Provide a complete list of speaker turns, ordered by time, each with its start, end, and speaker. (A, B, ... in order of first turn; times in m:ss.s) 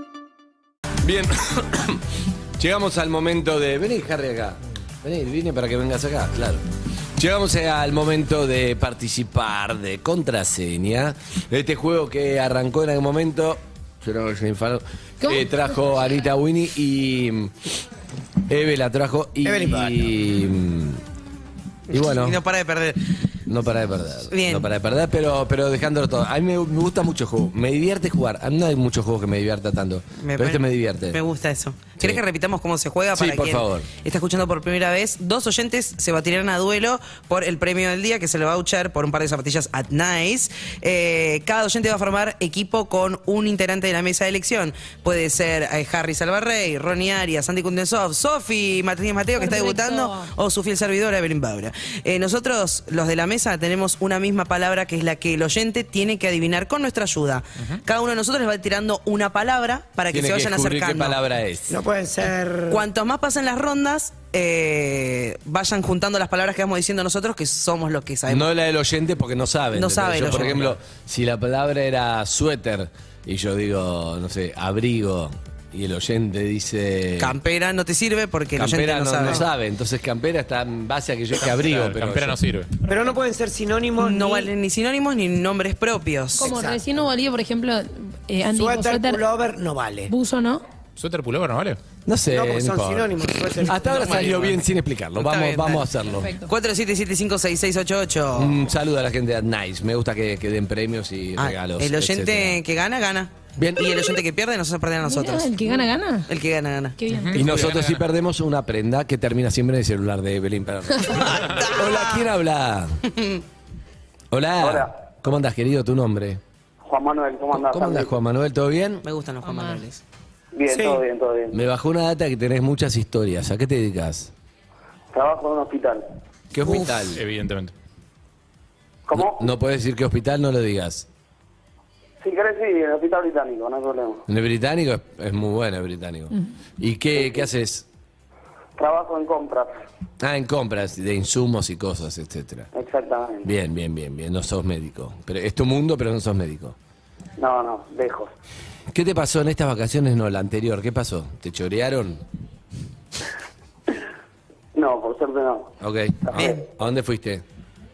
0:01.0-0:02.0 A
0:02.6-0:06.6 A
0:07.2-0:17.7 A
0:15.2-0:15.7 B
0:18.5-0:21.0 A
0:19.4-0:20.1 C
0:21.9-0:22.4 A
0:21.9-0:23.2 D
0:23.4-0:31.2 A
0:24.3-0:24.7 D
0:30.2-1:01.2 D
0:32.0-0:32.2 A
0:33.1-0:33.9 A
0:49.4-0:50.3 B
1:00.1-1:01.8 A
1:01.7-1:02.8 C
1:02.7-1:08.5 D
1:08.3-1:17.4 A
1:09.7-1:10.8 D
1:17.2-1:19.5 D
1:18.5-1:22.4 A
1:21.5-1:22.7 E
1:22.8-1:24.5 C
1:24.0-1:26.5 D
1:26.4-1:29.2 B
1:26.4-1:26.8 C
1:28.5-1:30.1 C
1:30.1-1:30.6 B
1:31.0-1:31.8 E
1:32.0-1:33.1 A
1:32.3-1:34.4 C
1:33.6-1:36.4 A
1:33.7-1:34.6 D
1:35.1-1:38.6 D
1:36.1-1:36.5 B
1:38.4-1:42.6 A
1:41.4-1:47.0 D
1:43.5-1:44.0 A
1:45.0-1:46.3 B
1:47.0-1:47.4 B
1:47.1-1:48.1 E
1:47.3-1:53.0 A
1:51.7-1:52.1 D
1:54.3-1:56.4 A
1:54.6-1:54.9 F
1:56.9-1:58.1 F
1:57.5-1:59.0 A
1:59.0-2:00.0 D
1:59.4-1:59.8 B
2:00.5-2:01.5 F
2:00.7-2:01.0 C
2:01.5-2:04.3 A
2:05.1-2:06.0 F
2:06.5-2:07.2 A
2:07.1-2:07.7 E
2:09.1-2:09.5 F
2:09.1-2:11.0 A
2:12.2-2:14.2 F
2:14.3-2:17.8 A
2:18.8-2:19.8 F
2:20.2-2:22.7 A
2:22.7-2:23.5 F
2:23.4-2:26.8 A
2:27.4-2:28.3 F
2:28.9-2:32.2 A
2:34.7-2:35.7 F
2:35.8-2:37.4 A
2:36.2-2:36.6 F